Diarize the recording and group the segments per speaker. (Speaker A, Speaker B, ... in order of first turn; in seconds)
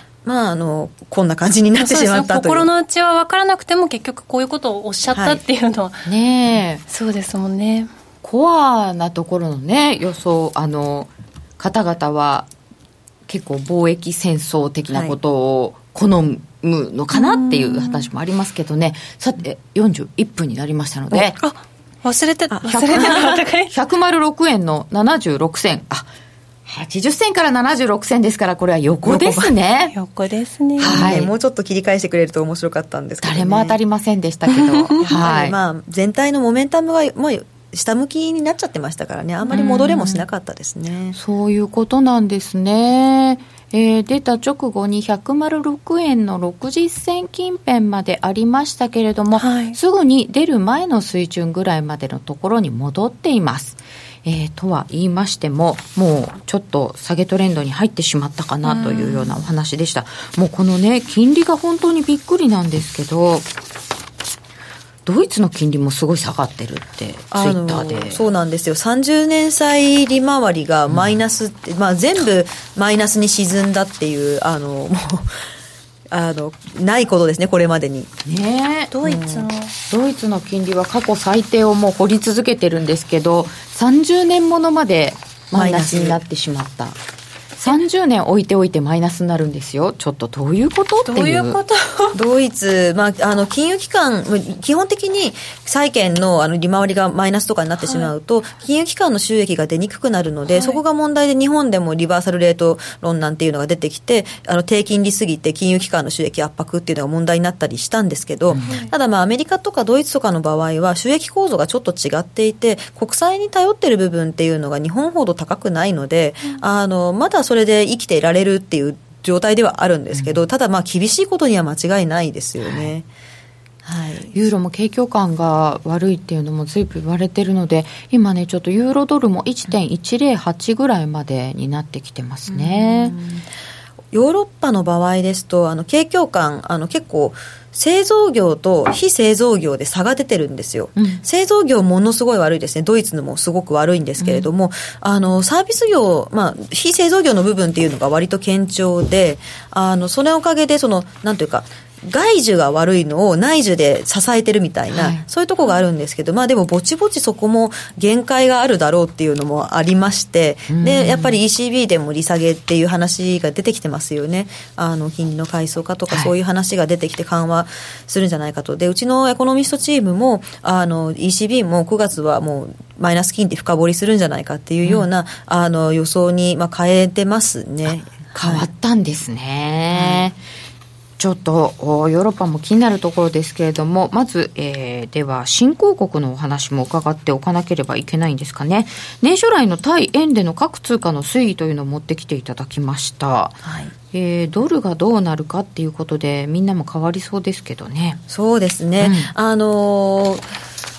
Speaker A: 0.2-2.7, 5.1-5.4, 14.9-15.2, 22.5-23.4, 29.0-29.5, 30.8-33.8, 35.0-41.1, 67.3-75.4, 76.1-78.1, 79.0-79.5, 85.5-86.2, 92.1-123.0, 123.8-124.4, 132.5-133.5, 134.1-178.7, 179.9-180.3, 193.6-193.9, 198.3-200.4
Speaker B: 1.8-6.0, 6.9-7.9, 17.1-18.1, 21.1-23.7, 29.9-31.1, 34.6-35.0, 39.4-39.7, 49.4-49.8, 58.6-59.3, 78.9-79.7, 91.0-92.2, 97.8-98.1, 100.5-100.8, 108.6-108.9
Speaker C: 6.0-6.8, 8.2-12.5, 13.3-21.4, 22.7-26.1, 26.7-29.9, 30.8-31.3, 33.2-35.5, 39.5-40.2, 41.1-63.5, 65.0-68.2, 78.2-78.9, 79.9-87.0, 87.6-91.6, 108.5-108.8, 120.1-120.4, 122.6-122.9, 124.3-133.1, 141.0-141.2, 144.2-144.5, 154.9-155.2, 160.7-161.3, 178.2-180.4, 181.2-198.2, 199.0-199.3